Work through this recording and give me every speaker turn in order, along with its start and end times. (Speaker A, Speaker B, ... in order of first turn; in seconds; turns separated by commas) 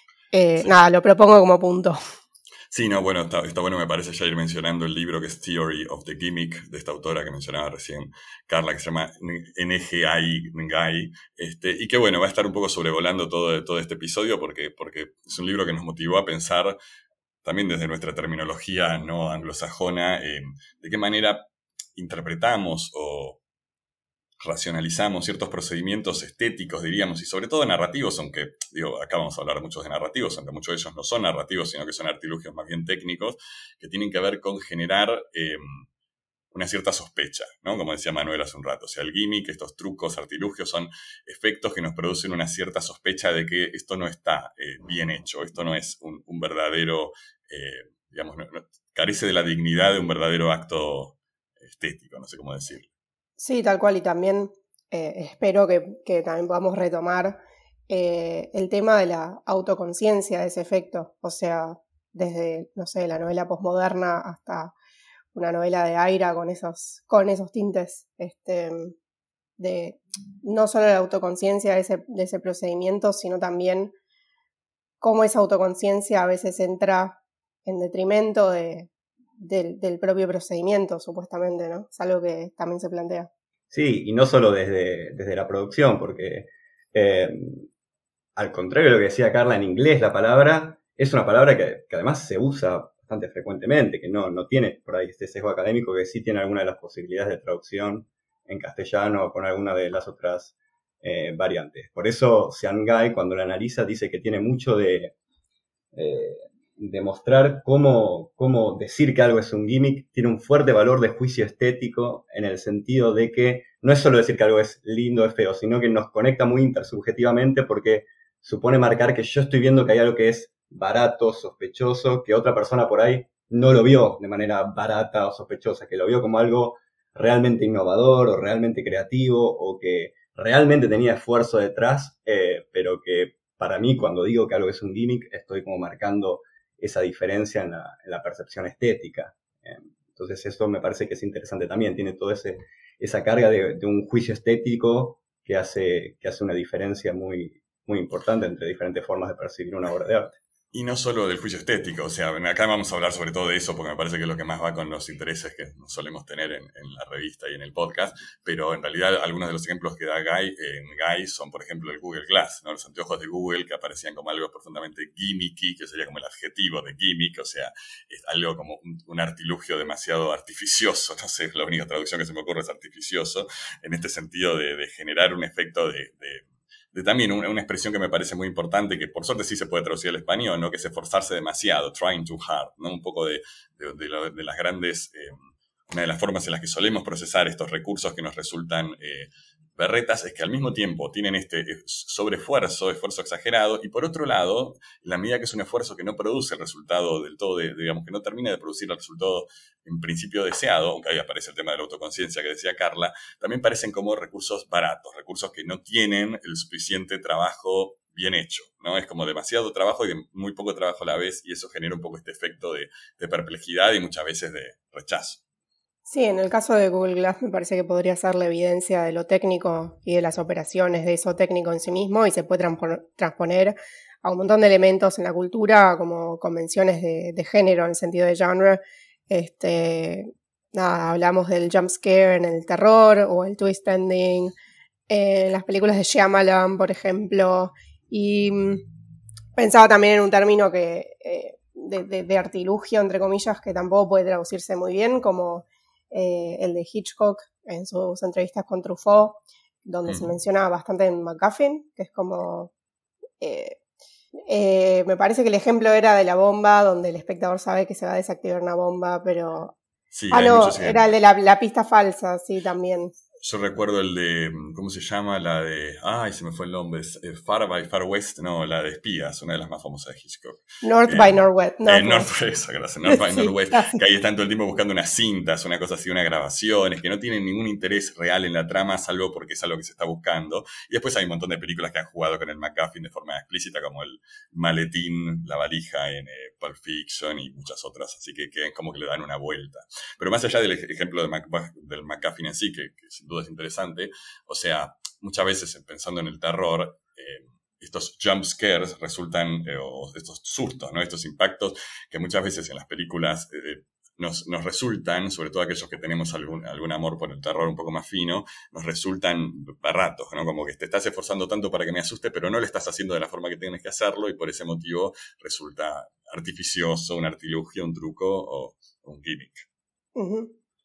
Speaker A: 0.3-2.0, Speaker B: 2.7-16.8, Speaker B: 17.4-23.4, Speaker B: 24.4-35.9, Speaker B: 36.5-52.9, Speaker A: 53.4-64.7, Speaker A: 65.3-68.9, Speaker A: 69.6-73.9, Speaker A: 75.0-83.3, Speaker C: 83.7-87.7, Speaker C: 88.4-105.1, Speaker C: 105.9-150.4, Speaker B: 150.7-185.4, Speaker B: 185.9-215.4, Speaker A: 216.1-234.5, Speaker A: 235.1-238.8, Speaker A: 239.6-252.7, Speaker B: 250.1-250.3, Speaker A: 253.4-253.8, Speaker A: 254.5-259.8, Speaker B: 260.1-261.1, Speaker A: 260.3-263.1, Speaker B: 263.4-319.7, Speaker A: 270.8-272.3, Speaker A: 273.1-274.0, Speaker A: 320.2-320.5